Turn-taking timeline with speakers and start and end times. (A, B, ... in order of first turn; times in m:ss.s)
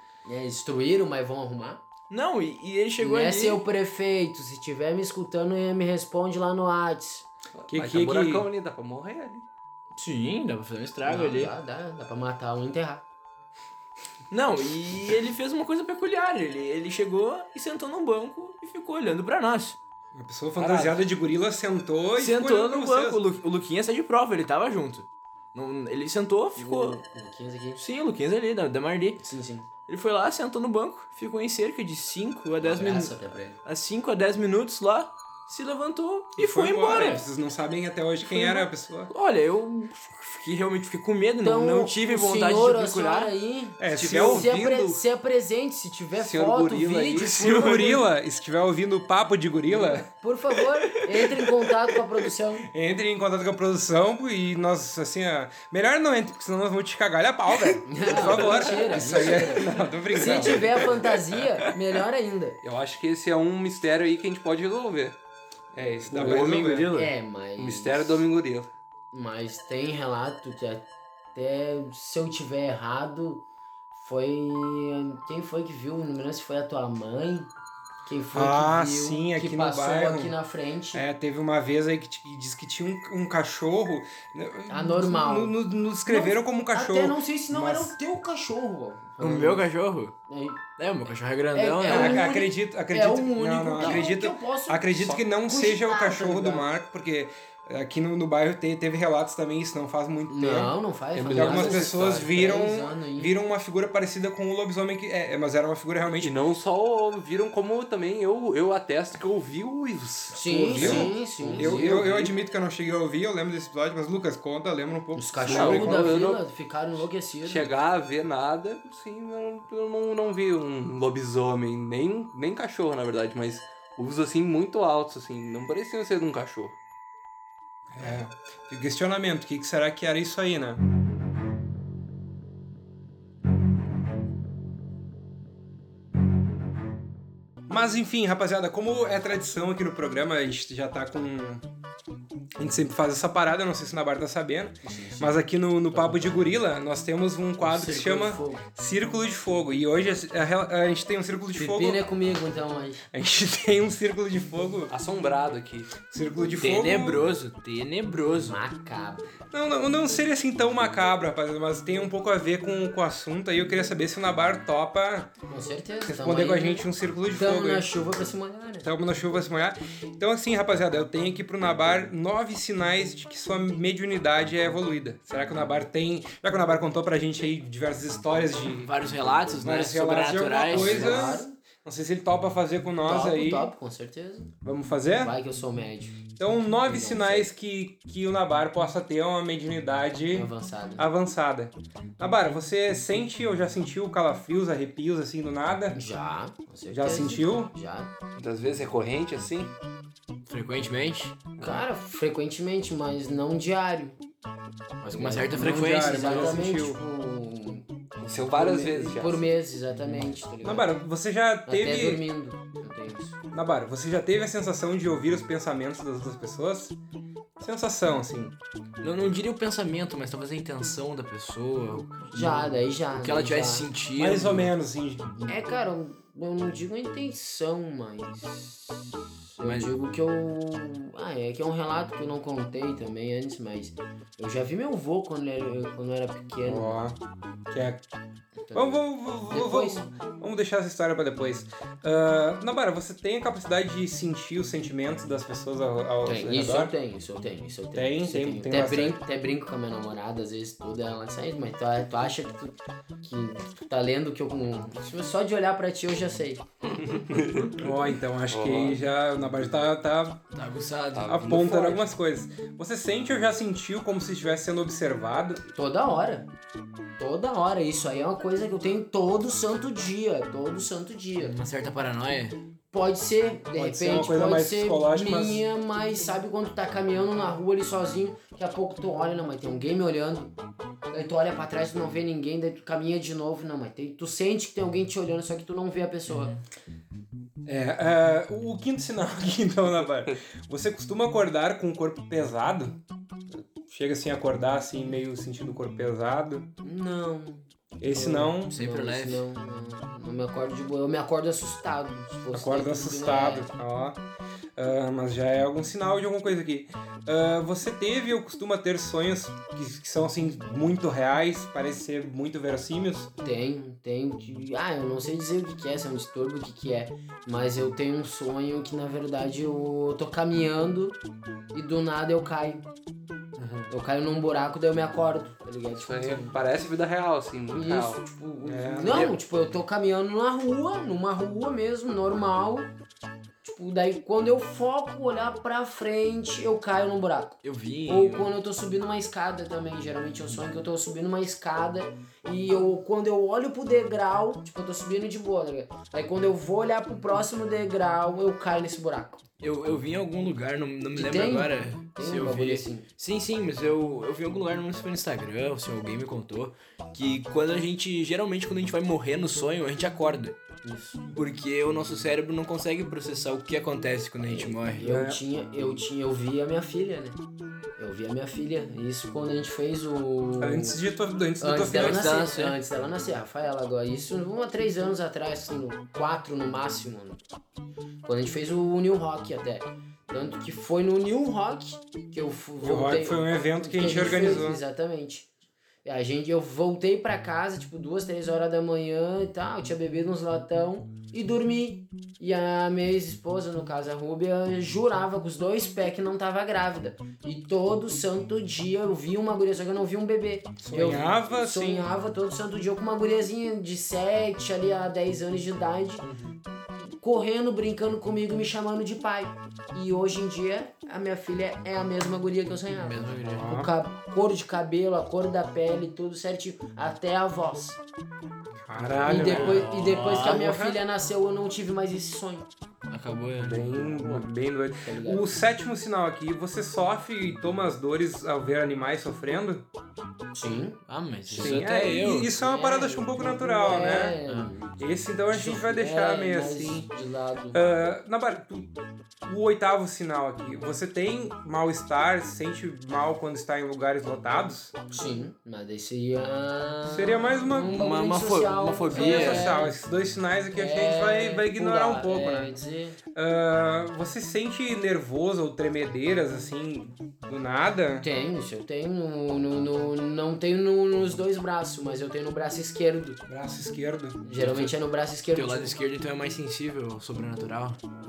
0:00.2-0:01.8 A
0:02.1-0:03.6 B
0:03.0-0:07.3 A
0:07.6-0:09.4 C
0:07.7-0:08.4 D
0:09.9-0:11.5 B
0:11.0-0:13.0 A
0:14.3-0:19.8 B
0:20.1-0:23.2 D
0:20.6-0:21.0 B
0:22.2-0:27.0 B
0:26.6-0:27.8 A
0:27.8-0:29.2 B
0:29.2-0:29.7 A
0:29.9-0:37.2 B
0:32.6-0:33.6 A
0:36.4-0:39.1 D
0:38.2-0:43.3 B
0:41.4-0:47.3 A
0:43.8-0:44.6 D
0:43.9-0:45.0 C
0:46.1-0:47.6 C
0:47.1-0:48.0 B
0:47.3-0:50.1 D
0:49.7-0:52.7 A
0:52.7-1:01.2 D
0:57.8-1:02.6 A
0:58.1-0:59.3 C
1:02.6-1:05.2 C
1:05.7-1:06.9 D
1:06.1-1:06.8 C
1:06.1-1:07.1 B
1:06.9-1:08.2 A
1:07.6-1:08.7 C
1:09.1-1:17.5 A
1:18.0-1:21.0 A
1:18.3-1:20.3 D
1:20.9-1:28.0 D
1:24.7-1:29.7 A
1:29.2-1:30.1 B
1:30.3-1:30.6 A
1:30.8-1:32.2 B
1:31.5-1:36.7 A
1:31.8-1:40.8 D
1:33.8-1:34.1 B
1:40.3-1:43.3 A
1:41.1-1:42.0 C
1:41.3-1:46.4 D
1:46.2-1:52.3 C
1:50.3-1:52.0 A
1:50.7-1:56.2 D
1:55.1-1:57.7 A
1:55.4-1:56.4 C
1:57.4-2:06.8 C
2:07.9-2:10.8 D
2:17.7-2:21.6 D
2:22.6-2:32.0 D
2:24.8-2:25.4 A
2:25.9-2:26.4 A
2:27.6-2:28.6 A
2:31.6-2:33.0 A
2:33.1-2:34.9 D
2:34.9-2:36.0 C
2:36.1-2:37.3 D
2:36.6-2:38.6 B
2:38.4-2:39.3 A
2:39.5-2:45.3 D
2:45.5-2:48.9 A
2:46.0-2:47.9 D
2:48.8-2:58.9 D
2:58.8-3:01.4 B
2:59.5-3:03.7 D
3:00.7-3:01.6 A
3:03.0-3:04.5 A
3:04.6-3:05.3 D
3:05.2-3:06.3 A
3:06.4-3:16.0 D
3:06.8-3:07.5 A
3:10.3-3:11.0 A
3:15.9-3:18.1 A
3:16.9-3:17.7 D
3:18.4-3:19.7 C
3:20.5-3:21.4 B
3:21.6-3:24.2 A
3:25.0-3:26.6 B
3:25.1-3:30.9 A
3:25.5-3:27.0 D
3:28.2-3:29.5 C
3:30.6-3:32.2 D
3:31.7-3:33.4 A
3:33.5-3:37.0 D
3:37.6-3:38.6 D
3:39.0-3:44.7 B
3:42.3-3:43.9 A
3:44.1-3:45.5 D
3:45.5-3:57.0 A
3:49.6-3:49.9 B
3:56.6-3:57.2 D
3:57.7-3:58.0 D
3:58.6-4:00.1 A
3:58.7-4:06.9 D
4:06.2-4:16.6 A
4:07.9-4:09.2 D
4:17.1-4:17.8 C
4:17.7-4:20.4 D
4:18.5-4:19.0 C
4:20.5-4:21.5 B
4:21.1-4:22.0 C
4:21.2-4:25.6 D
4:25.7-4:26.5 A
4:27.2-4:31.6 A
4:31.4-4:32.6 B
4:32.9-4:40.5 A
4:33.7-4:35.6 D
4:41.1-4:46.6 A
4:46.3-4:46.6 B
4:47.6-4:53.0 D
4:53.9-4:56.7 D
4:56.8-5:03.7 A
4:58.0-4:58.8 D
4:58.7-4:59.4 B
5:02.5-5:04.2 D
5:04.8-5:13.3 D
5:13.4-5:21.2 A
5:21.7-5:22.8 A
5:23.6-5:23.9 D
5:23.9-5:26.5 A
5:26.0-5:28.2 C
5:27.7-5:32.9 A
5:28.6-5:29.4 D
5:33.6-5:49.4 A
5:37.6-5:38.5 B
5:49.6-6:00.6 B
5:51.1-5:53.0 A
6:00.8-6:01.2 A
6:01.3-6:05.0 B
6:04.5-6:07.4 A
6:05.0-6:05.4 D
6:08.0-6:11.0 A
6:10.6-6:12.4 D
6:11.6-6:17.4 A
6:11.9-6:12.8 B
6:18.2-6:25.5 A
6:22.8-6:24.8 D
6:26.0-6:46.2 A
6:40.8-6:42.1 D
6:46.2-6:46.6 B
6:47.0-6:58.0 A
6:52.9-6:53.7 B
6:53.5-6:53.9 D
6:58.9-7:01.0 D
6:59.2-7:02.7 A
6:59.3-7:00.7 B
7:03.1-7:03.9 B
7:03.6-7:09.8 D
7:03.8-7:04.4 C
7:05.0-7:05.5 A
7:10.5-7:11.9 A
7:11.1-7:12.5 B
7:11.5-7:14.4 D
7:12.6-7:17.8 A
7:15.0-7:17.1 D
7:17.7-7:24.9 D
7:25.1-7:30.0 A
7:27.1-7:28.1 D
7:27.9-7:29.7 B
7:29.1-7:32.8 D
7:30.7-7:33.2 A
7:33.3-7:38.3 D
7:38.2-7:43.4 A
7:43.5-7:44.4 D
7:44.4-7:46.0 A
7:44.6-7:44.9 B
7:45.5-7:48.0 B